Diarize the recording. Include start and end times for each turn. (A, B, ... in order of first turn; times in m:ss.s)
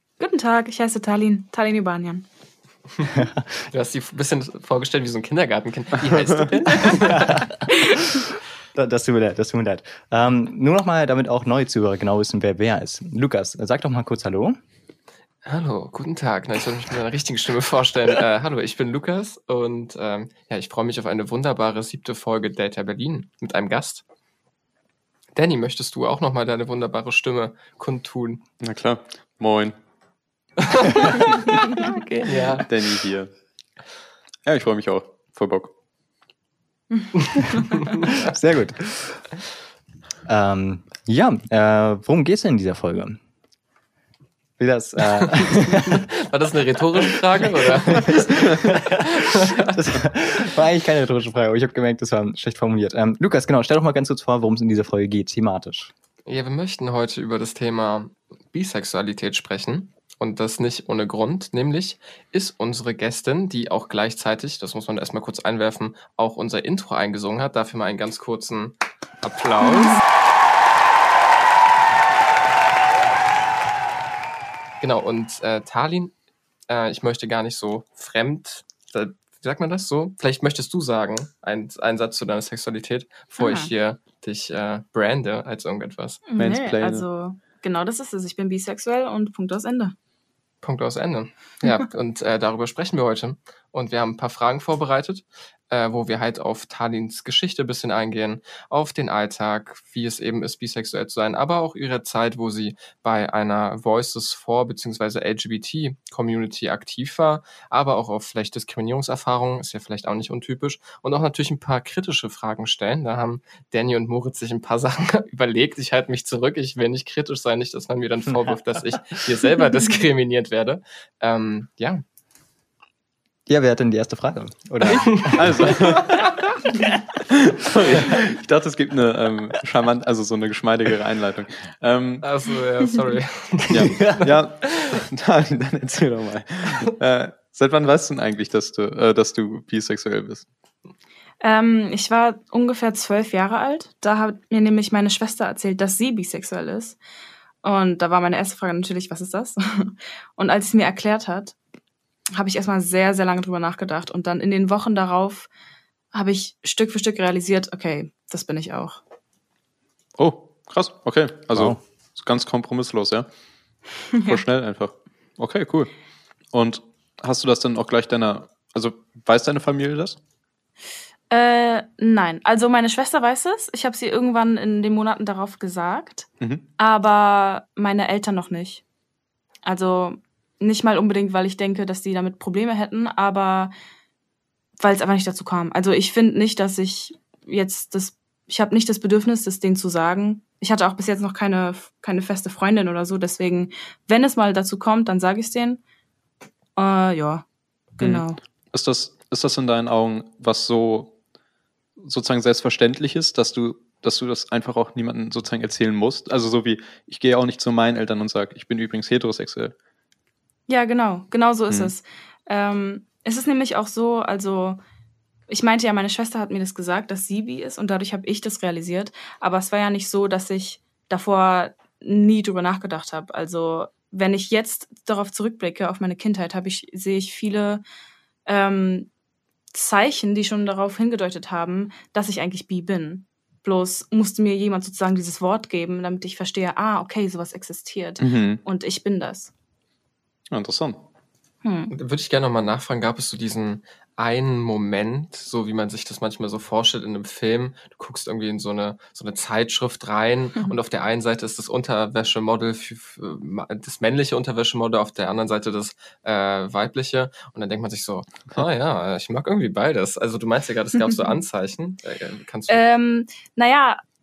0:00.2-0:02.3 A
0:03.1-0:03.6 B
0:03.7-0:07.5 C
0:07.0-0:14.6 B
0:15.4-0:24.0 C
0:25.4-0:28.4 C
0:28.6-0:29.8 D
0:30.7-0:32.7 C
0:30.8-0:31.4 D
0:32.6-0:33.3 D
0:34.4-0:35.7 D
0:37.0-0:37.6 A
0:37.8-0:38.2 C
0:38.2-0:39.3 B
0:40.3-0:43.2 B
0:44.6-0:46.1 B
0:45.1-0:49.7 C
0:47.4-0:55.9 B
0:56.3-1:10.0 C
1:14.8-1:16.1 C
1:16.7-1:26.2 C
1:23.4-1:23.7 A
1:26.3-1:30.0 A
1:26.4-1:27.0 D
1:30.6-2:02.0 C
2:03.5-2:05.9 B
2:04.9-2:06.2 D
2:05.1-2:05.8 C
2:07.3-2:12.2 D
2:12.2-2:14.1 C
2:13.7-2:20.5 D
2:21.4-2:27.0 A
2:27.6-2:31.6 A
2:32.3-2:35.5 A
2:36.1-2:39.0 A
2:40.2-2:43.3 D
2:41.5-2:41.8 B
2:44.2-2:45.9 D
2:46.5-2:50.2 D
2:51.3-2:58.8 A
2:59.6-3:03.7 A
3:04.8-3:15.8 A
3:16.8-3:17.4 A
3:18.0-3:18.4 A
3:18.0-3:21.1 D
3:22.0-3:29.7 D
3:30.7-3:34.8 A
3:35.5-3:47.8 A
3:48.5-3:49.1 A
3:49.7-3:59.5 A
3:58.2-3:58.6 D
4:00.5-4:01.0 D
4:01.6-4:01.9 A
4:01.9-4:22.9 C
4:22.7-4:24.0 A